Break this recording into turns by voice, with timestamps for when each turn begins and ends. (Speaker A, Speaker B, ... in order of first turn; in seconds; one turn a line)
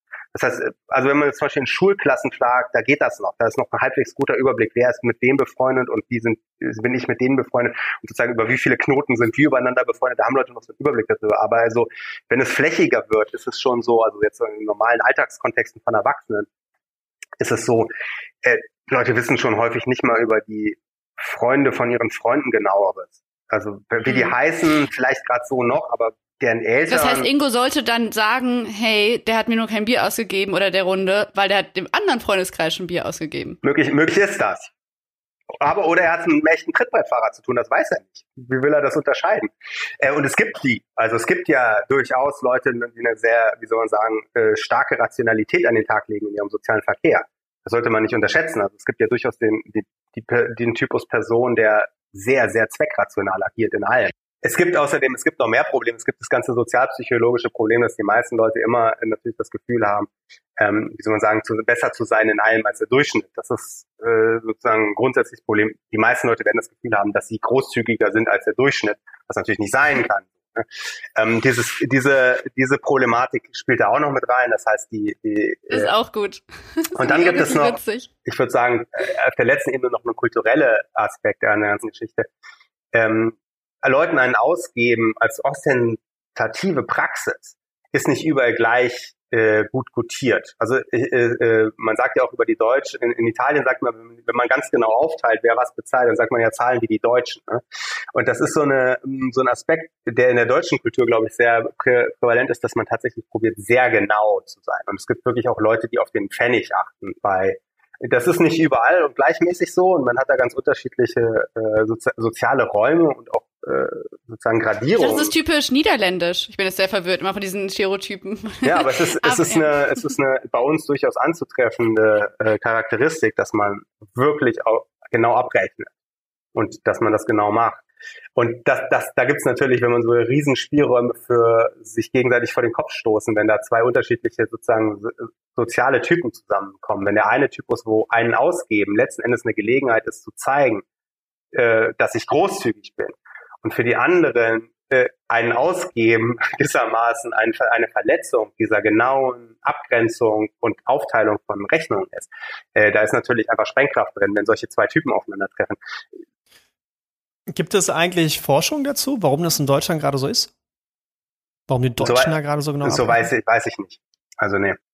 Speaker A: 0.3-16.5
Speaker A: 17.4-17.9
Speaker A: 18.4-27.3
Speaker B: 24.1-24.3
Speaker B: 26.9-33.6
Speaker A: 33.6-34.7
Speaker A: 35.6-75.9
Speaker B: 75.7-78.1
Speaker A: 77.0-82.3
Speaker A: 82.9-115.3
Speaker B: 115.0-120.1
Speaker A: 118.6-125.9
Speaker A: 126.5-127.8
Speaker A: 128.4-140.8
Speaker A: 141.5-155.8
Speaker C: 157.5-160.5
Speaker C: 161.7-163.3
Speaker A: 162.0-164.8